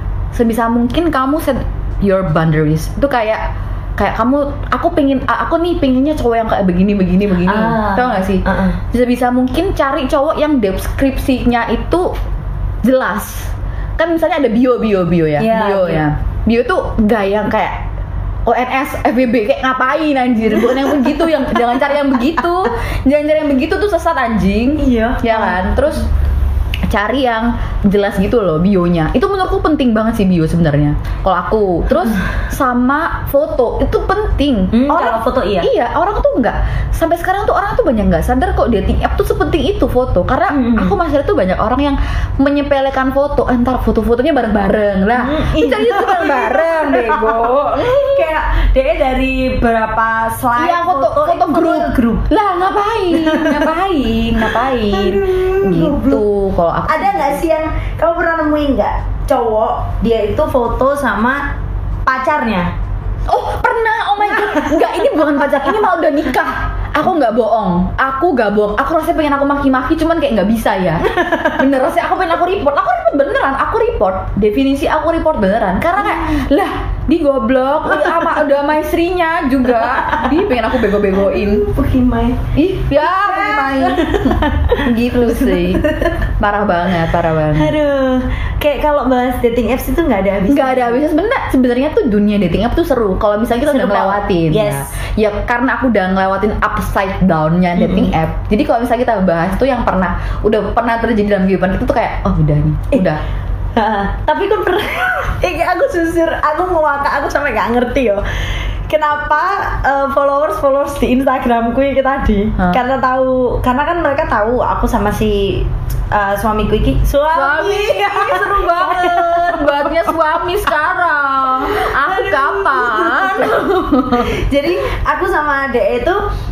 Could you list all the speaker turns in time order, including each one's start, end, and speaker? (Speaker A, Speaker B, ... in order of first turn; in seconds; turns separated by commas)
Speaker A: 0.3-3.5, Speaker A: 4.0-12.1, Speaker B: 7.4-8.8, Speaker A: 12.8-17.8, Speaker B: 15.4-16.1, Speaker A: 18.5-26.1, Speaker B: 24.8-25.6, Speaker A: 26.9-48.3, Speaker B: 34.7-35.7, Speaker B: 40.5-41.0, Speaker B: 45.2-52.3, Speaker A: 50.6-57.5, Speaker B: 53.1-53.7, Speaker B: 54.5-56.2, Speaker B: 56.9-61.4, Speaker B: 62.0-62.7, Speaker A: 63.3-81.7, Speaker B: 64.3-64.8, Speaker B: 71.1-71.6, Speaker B: 76.0-76.4, Speaker B: 77.9-78.4, Speaker B: 79.8-80.4, Speaker B: 81.1-82.4, Speaker A: 82.5-87.8, Speaker B: 83.0-86.2, Speaker B: 87.5-91.0, Speaker A: 90.5-103.2, Speaker B: 93.7-95.0, Speaker B: 97.8-98.1, Speaker B: 103.8-108.2, Speaker B: 108.9-120.2, Speaker A: 117.3-124.4, Speaker B: 121.7-126.2